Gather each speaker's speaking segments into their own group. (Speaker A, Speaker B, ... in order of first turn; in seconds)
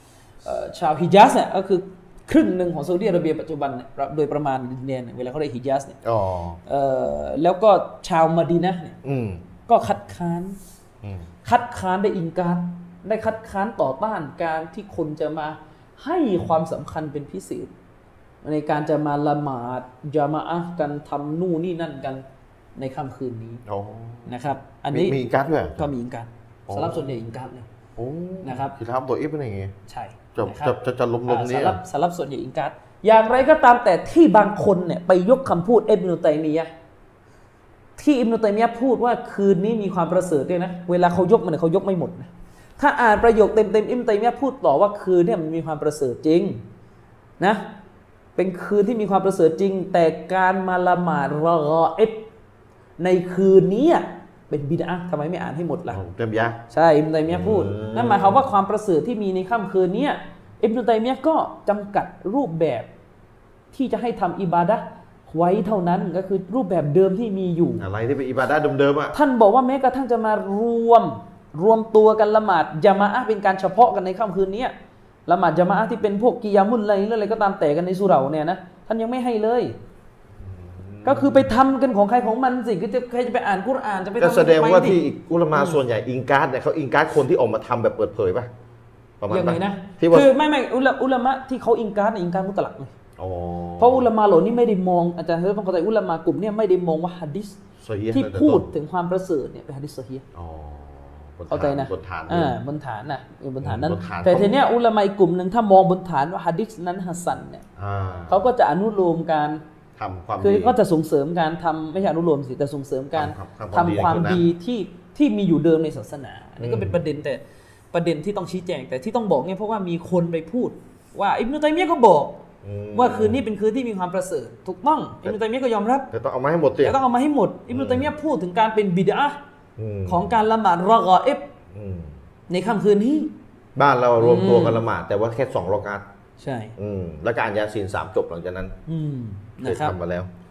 Speaker A: 0.4-6.0, 6.7-9.0, 9.7-10.6, 11.4-17.7, 18.4-22.2, 22.8-23.6, 24.3-25.2, 25.8-27.7, 28.4-28.8, 29.9-30.8, 31.3-36.7, 38.0-46.6, 48.4-52.3, 53.0-56.0, 56.7-62.9, 63.7-67.8, 69.1-74.7, 75.3-79.8, 81.0-85.0, 89.3-92.9, 93.8-97.6, 98.1-100.2, 101.5-107.6, 108.3-109.6, 110.4-117.4, 117.9-122.4, 122.9-126.1, 126.8-129.4, 130.1-131.5, 132.5-133.3, 134.2-134.8, 136.4-136.7, 138.9-139.9
Speaker B: 6.0-6.6, 9.0-9.4, 23.7-24.3, 24.9-25.9, 26.7-27.1, 28.0-29.7, 30.4-31.8, 55.9-56.6, 57.3-58.4, 67.8-69.2, 80.4-81.5, 84.2-88.5, 89.2-90.3, 93.2-94.1, 97.8-98.7, 100.3-102.5, 103.6-104.5, 107.8-108.4, 110.0-110.7, 113.2-114.4, 116.6-117.0, 122.6-123.4, 126.1-127.0, 127.7-128.1, 129.8-130.3, 131.7-132.1, 133.8-136.0, 136.8-138.7, 139.6-140.3